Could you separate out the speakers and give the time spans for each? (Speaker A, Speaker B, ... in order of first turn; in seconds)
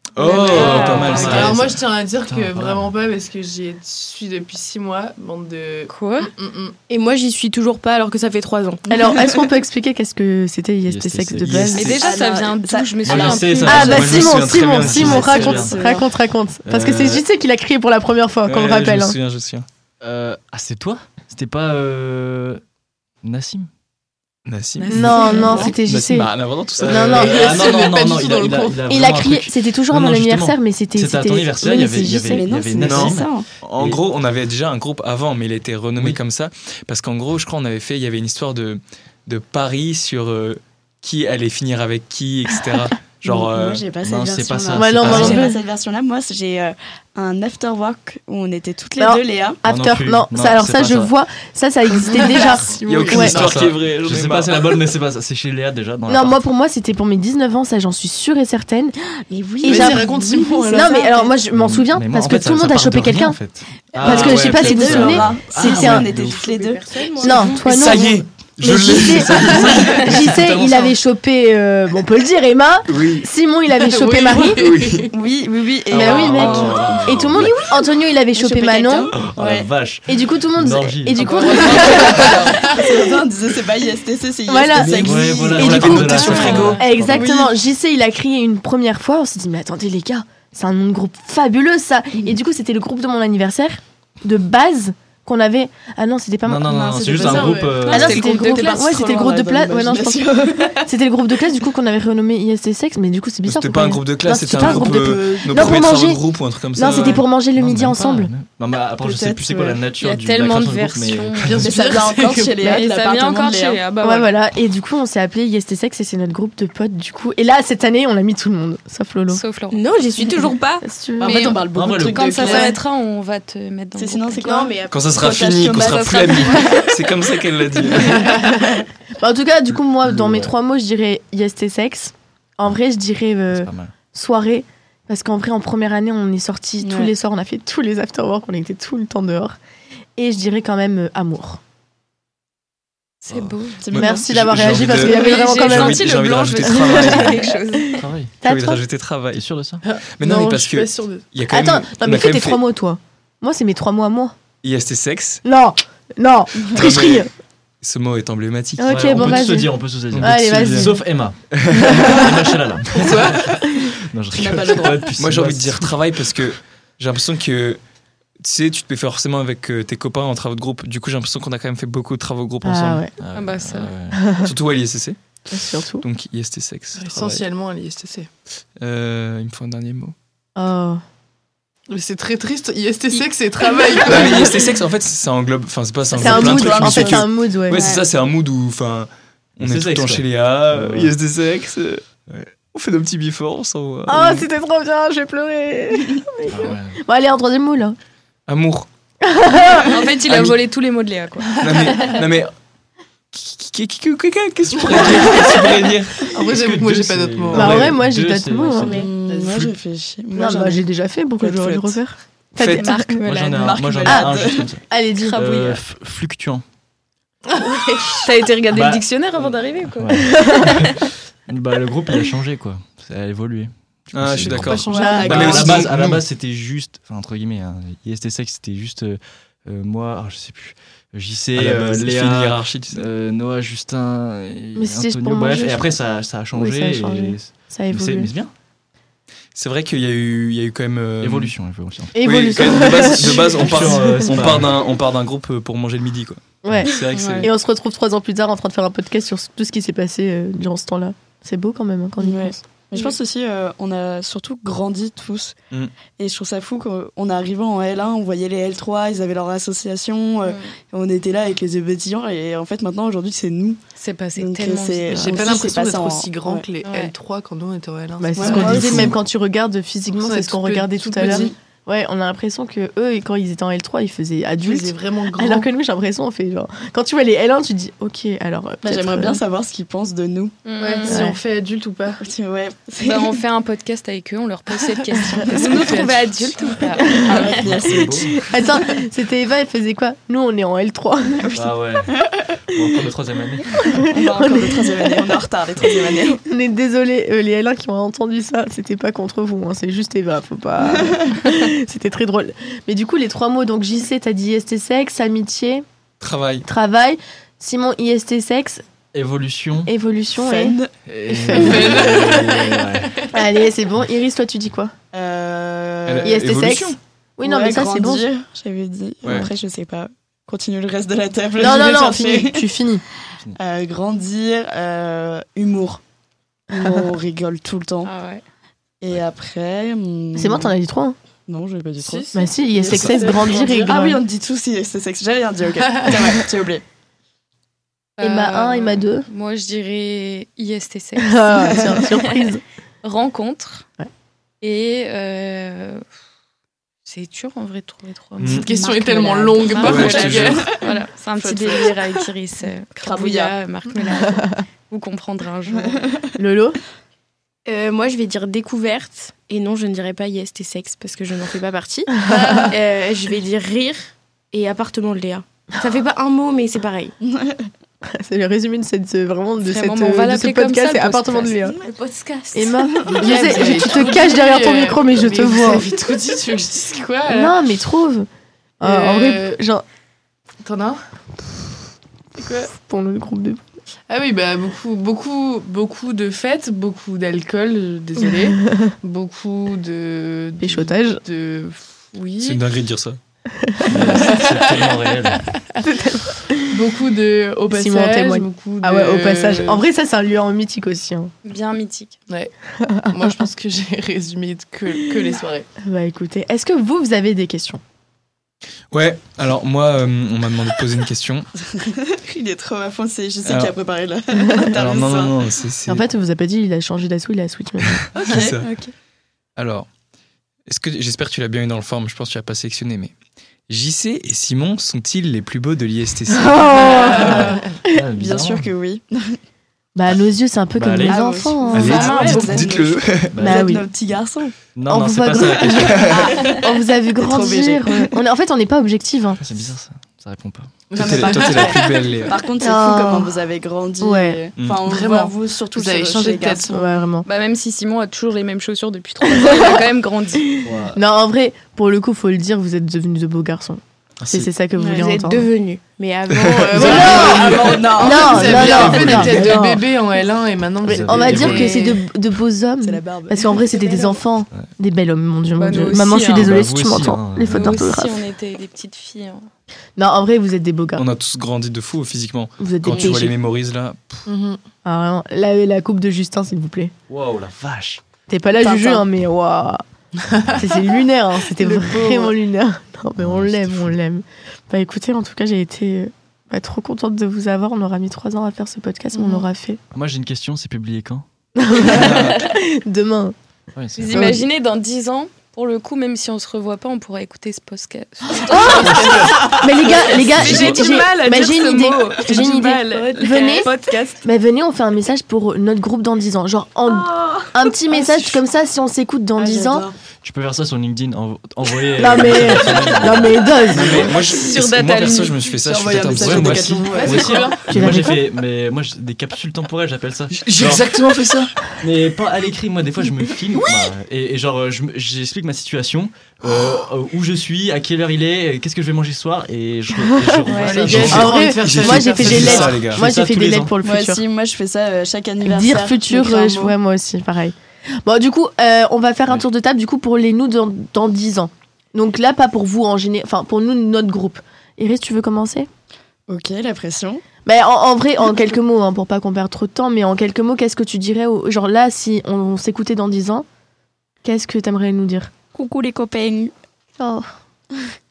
Speaker A: 0.2-1.6, 13.7-15.5, 18.4-19.7, 24.5-27.9, 32.8-43.8, 45.0-45.4, 52.9-54.9, 67.7-71.0, 72.9-73.3, 74.5-75.1, 85.6-86.8, 103.5-107.2, 124.9-128.3, 143.9-147.5, 148.4-149.4, 150.2-152.6, 154.6-155.4, 156.7-157.3, 157.8-159.5, 160.1-160.9, 161.5-162.1, 165.2-167.8, 168.4-173.0, 174.4-175.2, 176.0-177.4, 178.8-180.2, 184.1-192.1, 192.7-194.5, 198.5-198.9, 200.3-200.5, 201.6-202.5, 203.3-206.3, 207.5-207.9, 212.6-212.9, 224.1-226.2, 231.6-233.1, 239.6-241.5, 242.2-247.5, 268.4-269.2, 306.2-306.7, 316.1-317.0, 319.2-319.5, 348.4-348.7, 349.8-350.7, 392.4-393.2, 408.9-411.5, 413.4-413.8, 414.8-416.0, 418.2-418.7, 419.6-419.9, 420.7-423.1, 423.7-426.7, 431.7-433.3, 435.8-436.2, 441.0-442.4, 456.3-456.6, 471.0-474.2, 500.4-500.9, 513.7-517.1, 520.3-521.5, 530.9-533.0
Speaker B: 0.2-2.9, 10.9-12.0, 13.0-15.8, 16.6-17.2, 20.0-22.6, 23.2-23.7, 26.8-34.0, 44.0-45.4, 49.6-51.1, 53.3-56.4, 61.5-66.3, 75.9-77.6, 79.3-81.4, 84.8-87.3, 96.4-98.2, 107.5-111.7, 121.7-122.4, 130.0-130.5, 133.5-133.9, 148.0-148.3, 149.3-149.8, 158.9-166.4, 173.2-174.2, 189.6-191.1, 196.5-197.0, 206.5-209.1, 213.2-216.6, 218.7-238.5, 241.2-244.8, 287.5-288.4, 291.5-292.1, 292.7-294.0, 309.1-309.9, 311.1-313.2, 393.9-395.5, 427.3-428.7, 430.8-431.2, 433.3-433.8, 434.8-436.3, 439.4-440.7, 450.6-451.0, 458.2-459.5, 460.9-461.7, 466.3-467.8, 477.1-478.0, 483.2-484.0, 489.9-491.3, 491.8-492.4, 493.8-494.4, 498.5-499.7, 510.2-514.1, 516.1-520.9, 521.8-531.5, 532.4-533.8
Speaker C: 0.3-1.3, 5.9-6.3, 11.7-14.0, 24.8-25.7, 81.2-82.6, 86.1-86.8, 97.8-99.0, 106.9-107.2, 110.0-111.5, 112.6-114.3, 119.3-119.8, 121.2-121.6, 122.1-124.7, 143.2-143.9, 144.9-148.0, 173.3-173.9, 199.9-201.6, 212.8-213.9, 215.2-215.8, 217.6-220.5, 260.5-260.7, 264.0-265.5, 266.9-267.1, 280.6-281.2, 283.0-287.6, 328.0-328.4, 332.0-332.4, 338.2-342.4, 343.0-343.9, 344.6-346.0, 347.1-348.7, 349.6-356.1, 362.3-362.7, 369.6-371.6, 401.4-402.2, 431.8-432.5, 447.2-450.5, 465.6-466.5, 467.5-469.5, 494.0-499.2, 499.7-504.1, 514.1-515.4
Speaker D: 0.5-6.8, 27.2-28.8, 51.9-53.7, 59.7-61.0, 66.1-67.5, 69.3-70.1, 73.7-75.1, 81.3-82.9, 97.3-97.7, 111.4-112.8, 128.3-128.6, 149.8-151.2, 163.0-163.5, 177.0-178.3, 181.9-184.7, 206.3-207.8, 209.2-209.7, 224.4-225.8, 265.1-268.8, 270.1-271.5, 274.6-275.7, 280.8-282.2, 285.4-287.6, 311.5-312.9, 332.9-334.0, 348.5-350.7, 373.1-377.6, 378.8-379.6, 380.6-381.0, 382.4-382.7, 384.1-392.6, 393.9-395.9, 396.7-399.8, 403.1-405.7, 426.9-427.7, 440.9-442.2, 444.8-447.0, 456.6-462.1, 474.3-474.6, 481.6-482.3, 489.1-489.5, 516.9-517.6, 530.5-532.9
Speaker E: 6.9-8.9, 59.5-61.3, 66.5-68.0, 119.7-120.8, 124.5-125.1, 126.1-126.6, 183.7-184.1, 187.7-188.0, 348.7-350.0, 357.7-367.1, 371.8-373.6, 454.9-457.7, 502.3-504.1, 530.5-530.8, 555.6-556.4
Speaker F: 8.9-11.9, 13.7-19.2, 24.9-26.3, 26.9-27.5, 28.9-32.5, 44.7-45.6, 49.0-53.4, 56.1-59.0, 59.6-60.1, 60.7-63.4, 64.0-66.2, 67.2-74.6, 75.9-79.2, 80.1-83.1, 84.5-106.2, 106.8-108.3, 114.0-119.4, 120.8-121.5, 129.2-139.6, 140.2-141.6, 143.9-147.7, 148.4-148.8, 151.5-154.3, 155.4-157.3, 158.8-161.0, 172.7-173.2, 174.1-174.5, 175.5-176.1, 180.6-181.0, 186.2-187.9, 194.1-198.0, 199.2-200.2, 207.5-209.1, 210.3-213.2, 214.1-215.4, 220.4-220.7, 224.9-225.8, 234.8-236.0, 236.5-238.3, 242.2-244.5, 246.6-252.6, 268.2-279.4, 281.1-281.4, 287.1-287.4, 288.2-291.6, 294.1-295.2, 296.3-305.9, 306.6-308.8, 309.9-310.8, 311.5-312.0, 313.3-314.9, 316.2-318.3, 321.6-323.0, 326.9-327.1, 330.4-331.2, 332.3-334.2, 338.2-339.3, 341.2-342.6, 356.4-356.8, 368.1-371.8, 372.6-375.9, 377.3-378.3, 378.8-379.8, 382.7-383.6, 388.4-388.9, 390.6-391.2, 393.6-394.1, 395.8-396.8, 397.7-401.3, 402.8-403.4, 405.8-407.8, 415.9-418.1, 426.3-428.0, 429.9-432.4, 433.4-433.9, 434.9-439.4, 442.6-443.4, 444.0-444.4, 446.7-447.3, 449.3-449.8, 450.9-455.5, 456.8-459.9, 460.9-468.2, 470.0-471.1, 472.6-473.4, 474.9-476.9, 478.3-479.8, 480.6-489.8, 491.6-493.4, 494.1-494.5, 498.3-503.7, 504.2-509.9, 512.0-514.1, 517.7-518.3, 530.1-530.4, 531.0-534.2, 535.4-545.7, 547.5-553.5, 554.2-555.3, 557.0-557.3
Speaker G: 9.0-9.4, 11.8-14.3, 14.9-16.1, 25.2-25.7, 31.7-33.5, 43.2-49.6, 59.4-61.0, 63.9-67.7, 75.1-77.7, 78.3-79.7, 81.2-86.4, 87.0-87.6, 96.7-100.9, 104.5-105.9, 109.0-109.8, 111.6-113.8, 121.2-122.8, 124.0-126.8, 128.0-128.3, 136.8-137.1, 143.8-144.2, 164.3-165.1, 186.1-187.3, 208.9-210.8, 211.4-212.0, 213.6-214.7, 247.2-247.5, 252.2-255.5, 256.2-263.8, 264.4-266.6, 268.4-269.1, 271.2-271.5, 278.8-280.6, 282.2-283.4, 285.1-285.6, 286.8-288.8, 292.1-292.6, 294.1-296.4, 310.4-310.9, 315.1-316.4, 317.4-322.8, 323.6-326.0, 326.7-328.1, 329.0-330.7, 331.5-336.8, 350.1-352.2, 353.0-353.6, 355.7-356.4, 367.2-367.7, 411.7-415.4, 418.1-418.9, 426.7-427.6, 428.2-429.4, 431.0-434.5, 436.1-438.2, 441.0-446.7, 454.8-455.1, 456.8-459.6, 462.8-464.2, 507.2-507.5, 509.4-509.9, 515.6-517.6, 533.8-536.8, 546.3-547.2, 555.5-556.5